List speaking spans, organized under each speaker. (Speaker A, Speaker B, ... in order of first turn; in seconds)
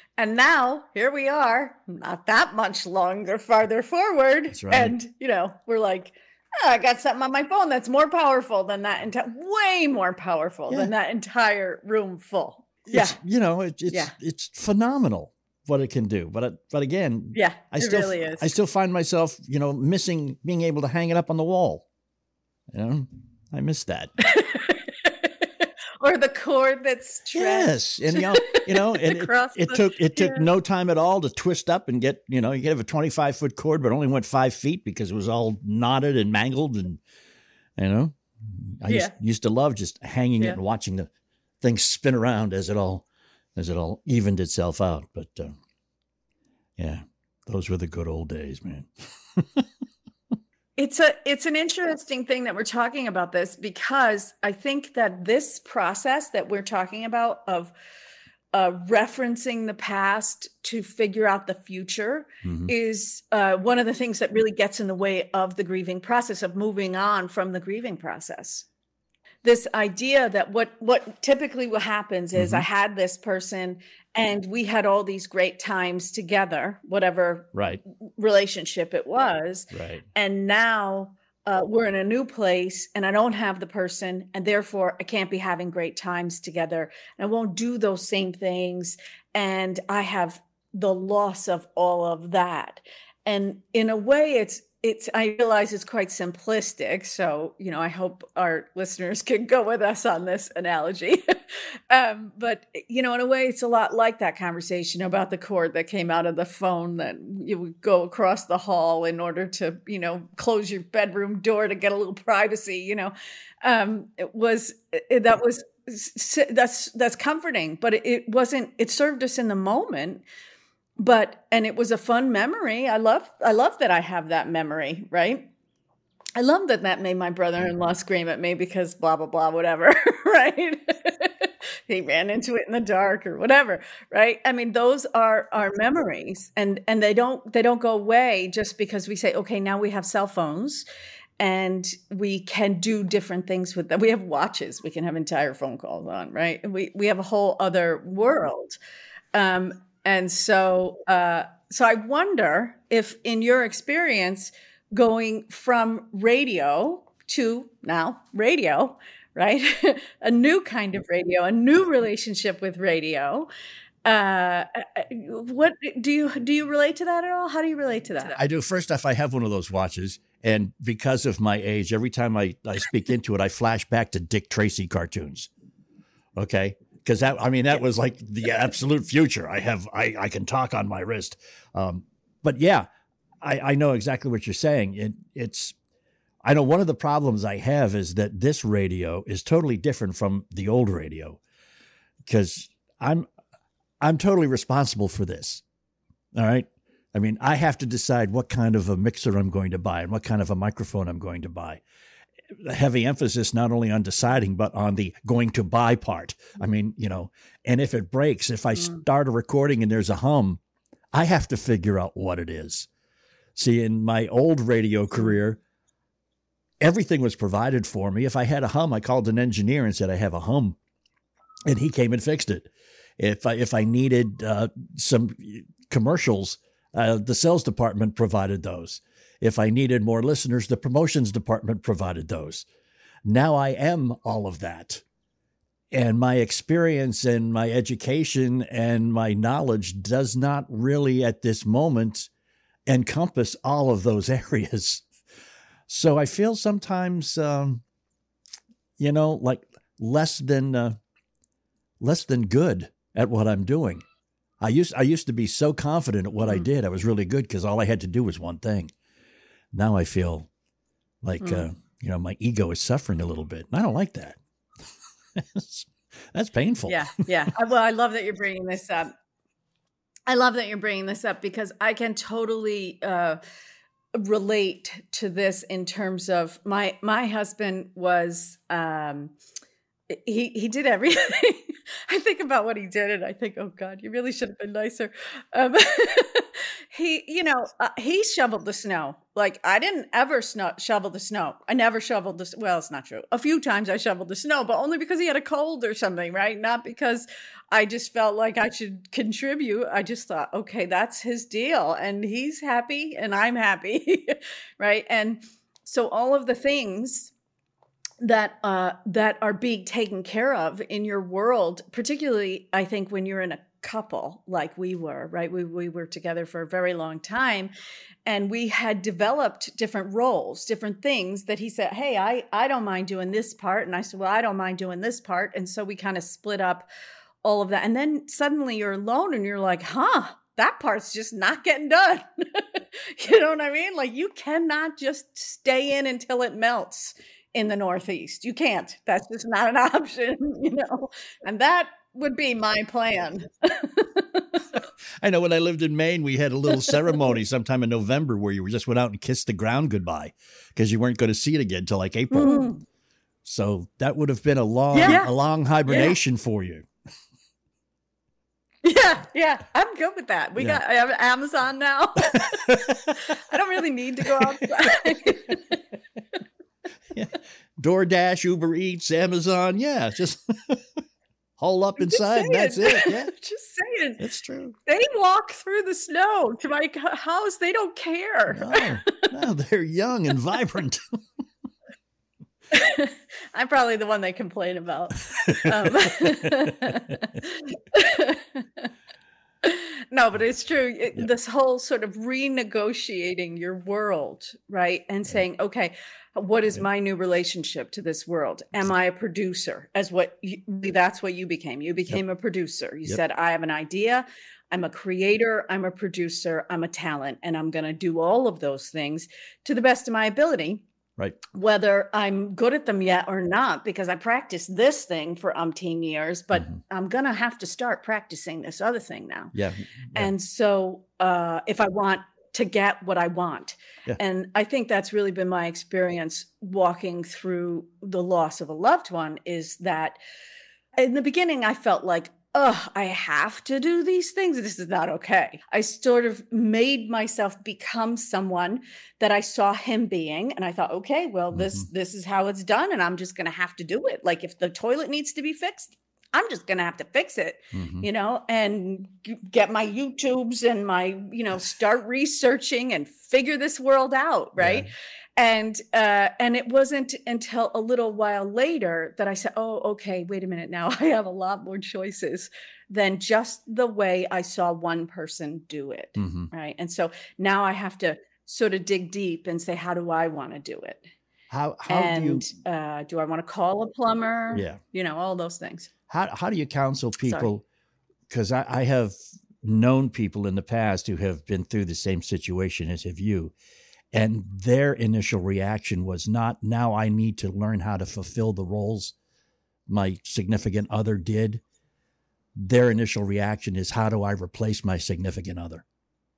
Speaker A: 0.2-13.2, 17.3-18.5, 24.2-30.5, 38.9-39.1, 50.8-57.7, 58.5-68.7, 69.4-77.5, 78.0-101.2, 101.9-113.1, 113.6-120.2, 121.0-125.5, 126.4-140.8, 141.4-148.8, 149.3-163.5, 164.0-168.4, 261.4-261.7, 266.9-269.1, 270.3-273.4, 274.1-279.3, 280.1-307.3, 308.2-317.7, 318.2-326.9, 327.4-344.6, 352.3-352.8, 354.9-355.3, 355.9-356.1, 358.8-365.8, 372.0-374.2, 374.9-379.1, 382.7-388.9, 389.6-410.8, 411.5-419.5, 420.1-430.2, 430.9-471.1, 471.9-475.9, 477.2-477.5
Speaker B: 4.5-5.0, 12.9-21.9, 22.7-24.1, 27.3-37.0, 37.8-41.1, 41.6-45.6, 46.8-49.6, 62.4-62.7, 72.3-72.6, 77.5-77.8, 79.7-80.0, 168.3-175.5, 176.4-182.9, 183.4-185.7, 186.4-191.4, 192.2-193.3, 194.0-195.6, 196.3-201.8, 202.6-210.6, 211.1-212.9, 213.6-215.6, 216.8-220.8, 221.7-232.7, 233.2-235.0, 235.9-242.3, 242.9-245.1, 245.9-247.8, 249.0-251.0, 252.0-254.0, 254.6-258.9, 259.7-260.5, 261.2-264.4, 265.4-267.2, 345.2-352.7, 353.4-356.9, 362.3-363.2, 367.1-370.8, 371.6-373.3, 374.2-374.8, 378.5-381.0, 385.4-387.0, 411.2-411.4, 419.5-420.3, 441.5-441.8, 447.7-448.1, 454.6-454.9, 466.1-466.5, 471.5-472.5, 474.5-474.8, 476.1-477.6, 478.3-483.5, 484.1-489.1, 489.9-491.6, 492.6-495.8